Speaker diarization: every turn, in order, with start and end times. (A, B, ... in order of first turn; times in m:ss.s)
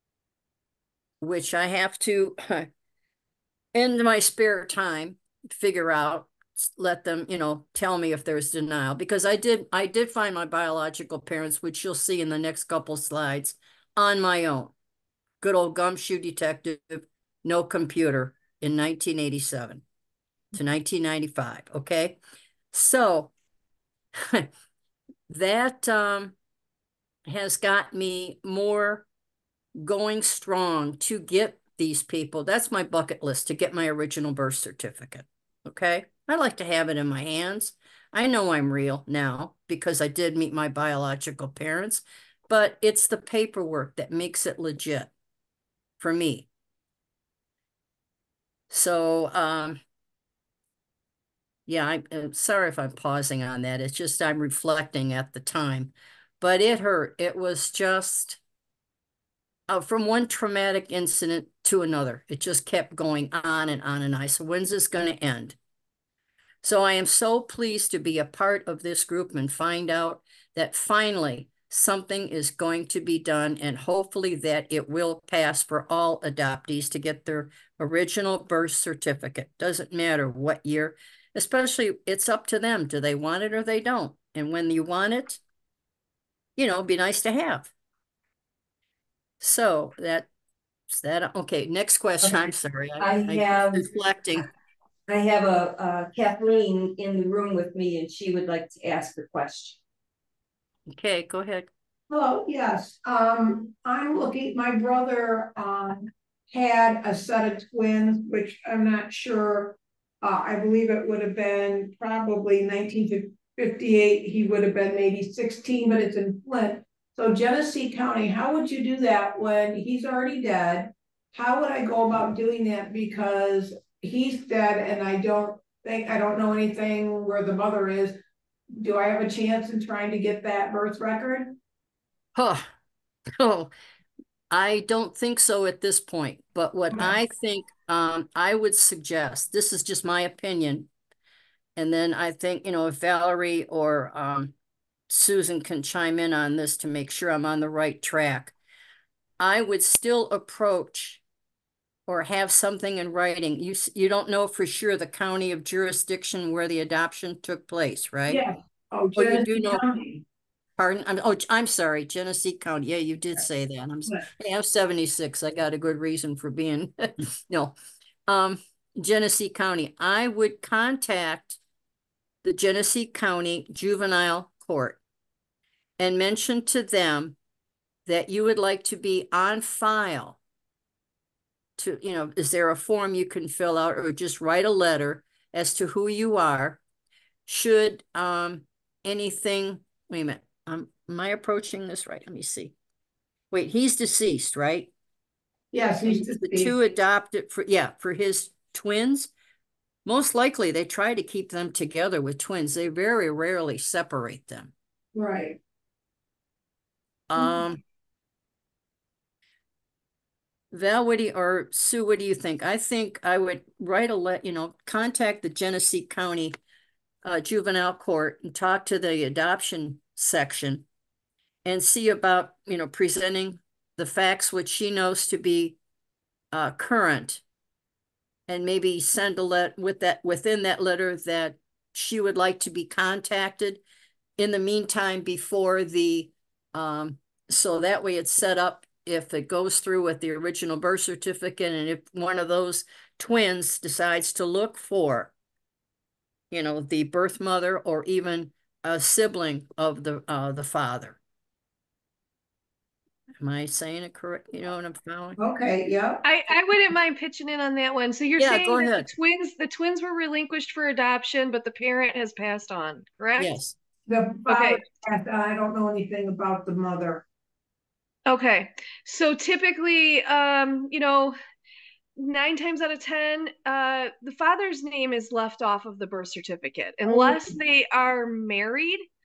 0:01.2-0:02.7 A
0:03.7-0:14.7 A
0:15.4-0:19.8 A
0:20.5-0:22.2 A
0:22.7-0:23.3 A
0:24.1-0:24.5 A
0:25.3-0:26.4 A
0:27.2-0:29.0 A
0:29.7-0:45.1 A
0:46.0-0:46.5 A
0:48.7-0:49.8 A
0:51.7-0:58.4 A
0:59.7-1:05.6 A
1:06.6-1:25.4 A
1:26.6-1:27.7 A
1:29.4-1:30.3 A
1:30.9-1:34.4 A
1:32.2-1:32.5 B
1:33.0-1:33.9 B
1:35.1-1:39.8 B
1:40.9-1:41.7 A
1:42.1-2:08.2 C
2:08.8-2:11.6 C
2:12.3-2:12.7 A
2:13.3-2:13.7 A
2:14.5-2:20.9 A
2:21.8-2:24.5 A
2:25.1-2:28.5 A
2:29.4-2:31.2 A
2:32.1-2:38.4 A
2:38.3-2:40.2 C
2:39.1-2:39.9 A
2:40.8-2:47.7 A
2:48.3-2:51.6 A
2:52.4-2:55.0 A
2:56.0-2:57.4 A
2:58.0-3:00.4 A
3:01.8-3:06.8 A
3:07.4-3:12.7 A
3:13.5-3:14.9 A
3:15.7-3:16.7 C
3:16.0-3:19.3 A
3:20.0-3:24.7 A
3:25.1-3:25.6 C
3:27.3-3:27.8 A
3:27.3-3:27.6 C
3:30.7-3:36.5 A
3:37.2-3:40.8 A
3:41.6-3:45.8 A
3:46.5-3:47.4 A
3:48.5-3:53.8 A
3:54.4-4:05.3 A
4:06.5-4:11.2 A
4:13.4-4:15.4 A
4:15.4-4:16.2 C
4:16.2-4:23.5 D
4:18.4-4:19.1 A
4:23.4-4:23.7 A
4:24.1-4:27.2 C
4:24.5-4:24.8 D
4:28.2-4:31.4 D
4:32.2-4:39.0 D
4:37.1-4:37.5 B